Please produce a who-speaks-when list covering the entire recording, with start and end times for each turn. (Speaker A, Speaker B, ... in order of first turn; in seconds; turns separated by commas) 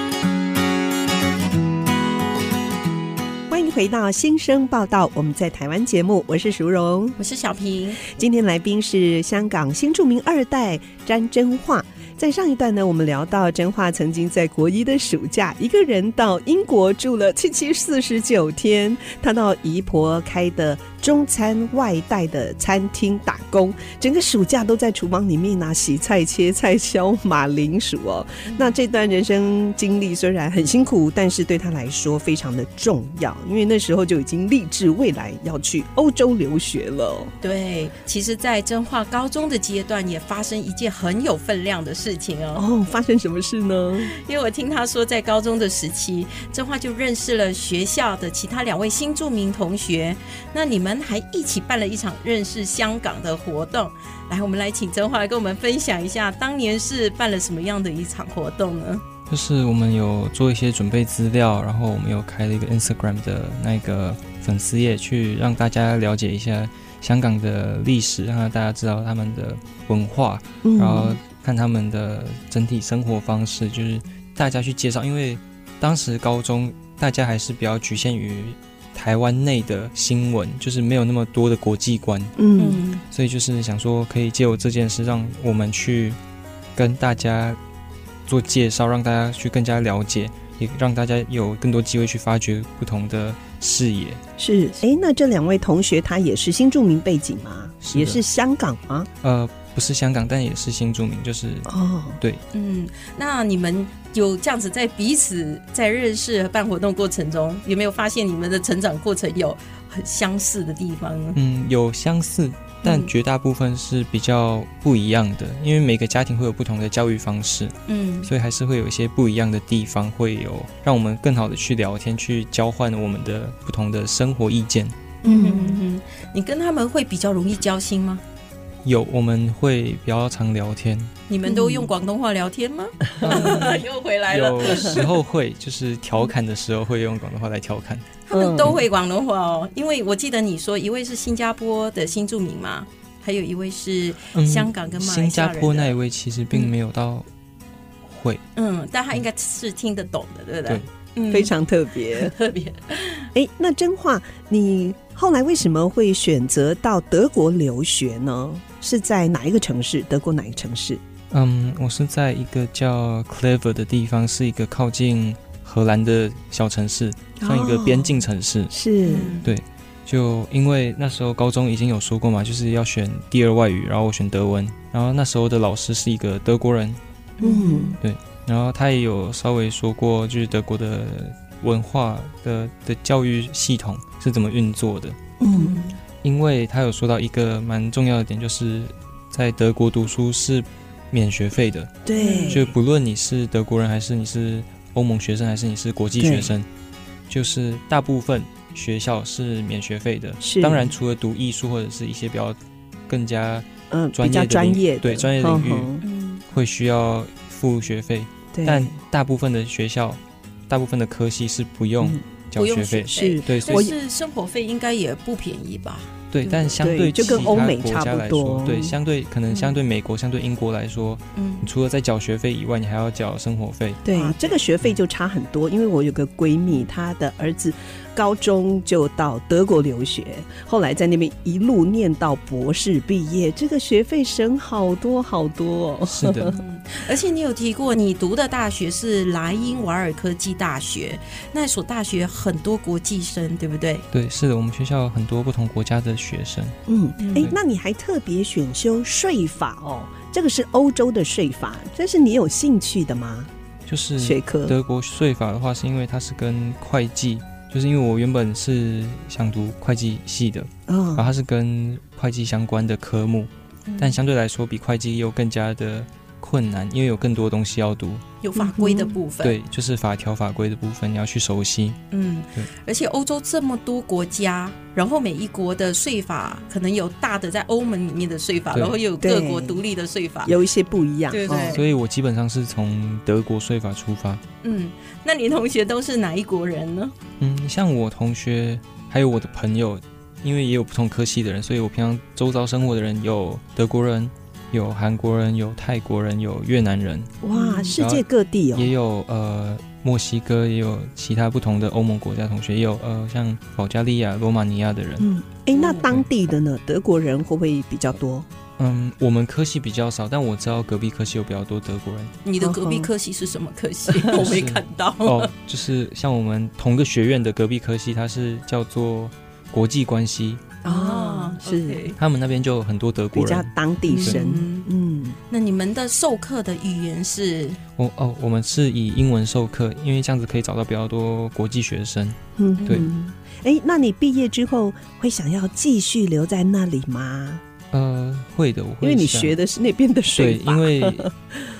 Speaker A: 3.5-7.2, Speaker B: 7.2-8.0, Speaker A: 8.0-37.3, Speaker B: 28.4-28.7, Speaker B: 37.4-42.6, Speaker A: 42.5-44.1, Speaker B: 44.0-59.0, Speaker C: 59.3-82.3, Speaker A: 70.6-71.2, Speaker A: 82.4-82.8, Speaker B: 82.6-83.0, Speaker C: 83.1-86.2, Speaker C: 86.8-87.6, Speaker C: 88.3-94.2, Speaker A: 94.4-99.1, Speaker C: 97.8-98.2, Speaker C: 99.2-102.4, Speaker A: 101.7-102.2, Speaker B: 102.5-111.4, Speaker C: 111.3-124.9, Speaker B: 112.8-113.1, Speaker B: 117.9-118.3, Speaker B: 125.2-128.2, Speaker A: 125.2-125.8, Speaker C: 128.8-131.1, Speaker B: 131.3-135.1, Speaker A: 131.4-131.9, Speaker A: 133.2-133.7, Speaker C: 133.2-133.8, Speaker C: 134.3-138.1, Speaker A: 134.7-135.0, Speaker B: 138.3-145.9, Speaker A: 138.3-138.8, Speaker C: 144.3-147.2, Speaker C: 148.0-148.4, Speaker B: 148.6-151.5, Speaker A: 151.3-152.3, Speaker B: 152.1-153.3, Speaker A: 153.3-161.0, Speaker C: 161.3-168.7, Speaker A: 167.4-169.3, Speaker B: 169.0-169.5, Speaker C: 169.4-177.0, Speaker B: 177.4-178.0, Speaker A: 177.4-178.0, Speaker C: 178.0-185.2, Speaker A: 185.4-185.8, Speaker B: 185.5-185.9, Speaker C: 186.2-191.9, Speaker A: 192.0-192.7, Speaker B: 192.2-192.6, Speaker C: 192.5-196.7, Speaker A: 196.2-196.5, Speaker C: 197.3-202.6, Speaker A: 200.4-200.9, Speaker C: 203.1-205.9, Speaker A: 203.9-206.0, Speaker B: 206.0-206.4, Speaker C: 206.5-213.9, Speaker A: 208.5-208.9, Speaker B: 212.5-217.7, Speaker A: 213.1-213.9, Speaker C: 216.3-224.0, Speaker A: 216.8-218.9, Speaker B: 219.5-219.7, Speaker B: 221.3-221.7, Speaker A: 224.0-236.6, Speaker B: 224.1-224.6, Speaker C: 236.1-236.5, Speaker B: 236.5-244.0, Speaker C: 244.1-246.8, Speaker A: 246.9-253.5, Speaker B: 247.2-247.5, Speaker C: 253.9-268.2, Speaker A: 254.2-254.7, Speaker A: 260.9-261.3, Speaker B: 263.9-264.2, Speaker B: 268.4-269.6, Speaker A: 268.6-269.2, Speaker C: 269.4-272.0, Speaker B: 272.1-280.5, Speaker C: 278.7-279.0, Speaker A: 279.2-279.8, Speaker A: 280.4-281.8, Speaker B: 281.3-281.8, Speaker C: 281.5-284.4, Speaker B: 284.6-287.1, Speaker C: 287.4-297.4, Speaker A: 297.4-298.9, Speaker B: 297.5-297.9, Speaker C: 297.9-305.3, Speaker A: 305.2-308.5, Speaker B: 305.7-306.2, Speaker C: 308.8-312.3, Speaker B: 312.4-315.5, Speaker A: 312.6-313.1, Speaker A: 314.1-314.4, Speaker C: 314.3-320.6, Speaker A: 320.8-322.0, Speaker B: 320.8-322.2, Speaker C: 322.2-323.7, Speaker A: 323.3-325.4, Speaker B: 324.1-324.9, Speaker B: 325.5-327.8, Speaker C: 328.0-333.1, Speaker A: 332.6-337.6, Speaker B: 332.8-333.1, Speaker C: 337.9-339.6, Speaker A: 339.0-341.6, Speaker C: 340.4-341.3